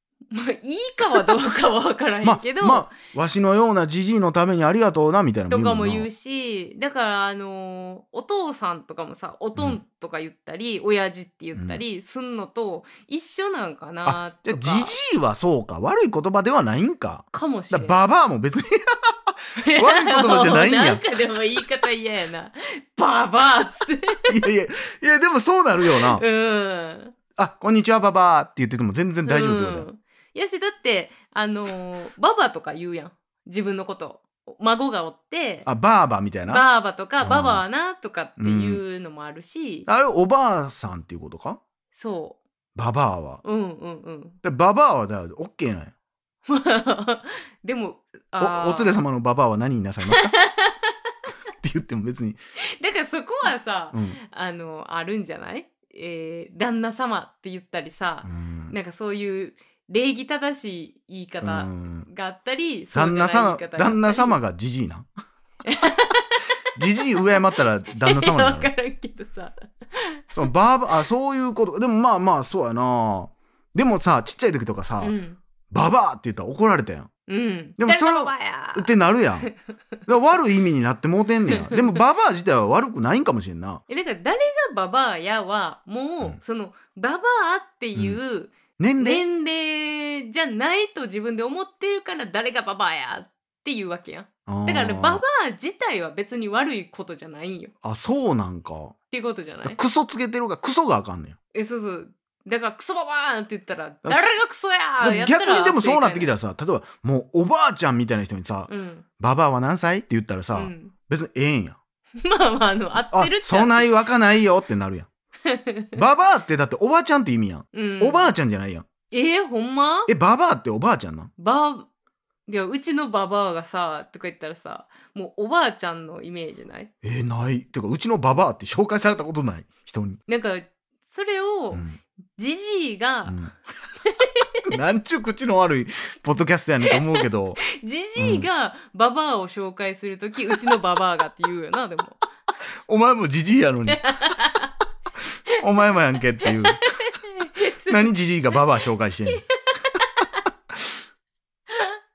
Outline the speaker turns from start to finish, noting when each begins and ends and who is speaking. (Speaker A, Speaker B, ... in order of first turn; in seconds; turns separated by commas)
Speaker A: 0.3-2.9, Speaker B: 2.2-6.1, Speaker A: 5.5-14.9, Speaker B: 11.5-11.8, Speaker B: 14.0-21.1, Speaker A: 17.3-18.0, Speaker A: 19.6-24.3, Speaker B: 24.3-26.2, Speaker A: 25.9-27.1, Speaker B: 27.4-29.9, Speaker A: 29.2-35.7, Speaker B: 35.6-36.6, Speaker A: 36.5-39.9, Speaker B: 37.2-37.6, Speaker B: 38.4-38.8, Speaker B: 39.9-41.6, Speaker A: 41.9-42.4, Speaker B: 42.8-43.4, Speaker A: 43.4-44.4, Speaker B: 44.4-45.9, Speaker A: 46.5-49.0, Speaker B: 48.4-50.3, Speaker A: 50.1-50.9, Speaker B: 51.5-52.4, Speaker A: 52.8-64.3, Speaker B: 53.9-54.2, Speaker B: 58.2-58.8, Speaker B: 61.4-62.1, Speaker B: 62.9-65.1, Speaker A: 65.6-70.3, Speaker B: 66.7-68.7, Speaker B: 70.3-75.2, Speaker A: 75.0-75.4, Speaker B: 75.7-77.1, Speaker A: 77.3-79.5, Speaker B: 77.8-79.5, Speaker B: 80.1-83.8, Speaker A: 81.5-81.9, Speaker A: 83.9-97.7, Speaker B: 88.8-89.2, Speaker B: 94.5-95.2, Speaker B: 97.8-99.0, Speaker A: 99.1-99.8, Speaker B: 99.6-101.4, Speaker A: 101.5-106.3, Speaker B: 104.0-104.3, Speaker B: 105.0-111.8, Speaker A: 108.7-109.0, Speaker A: 110.5-110.9, Speaker A: 112.2-113.9, Speaker B: 113.1-115.1, Speaker A: 115.4-115.9, Speaker B: 116.0-118.8, Speaker A: 117.7-118.3, Speaker A: 119.1-120.1, Speaker B: 120.1-121.3, Speaker A: 121.4-121.9, Speaker A: 122.5-126.9, Speaker B: 127.0-130.2, Speaker A: 130.3-131.8, Speaker B: 131.7-132.0, Speaker A: 132.3-133.4, Speaker B: 133.2-133.5, Speaker A: 134.0-134.6, Speaker B: 134.7-137.6, Speaker A: 137.0-142.2, Speaker B: 138.2-138.5, Speaker B: 142.9-144.1, Speaker A: 143.9-144.7, Speaker B: 145.6-146.8, Speaker A: 146.4-148.6, Speaker B: 147.8-149.4, Speaker A: 149.3-150.3, Speaker A: 151.7-152.0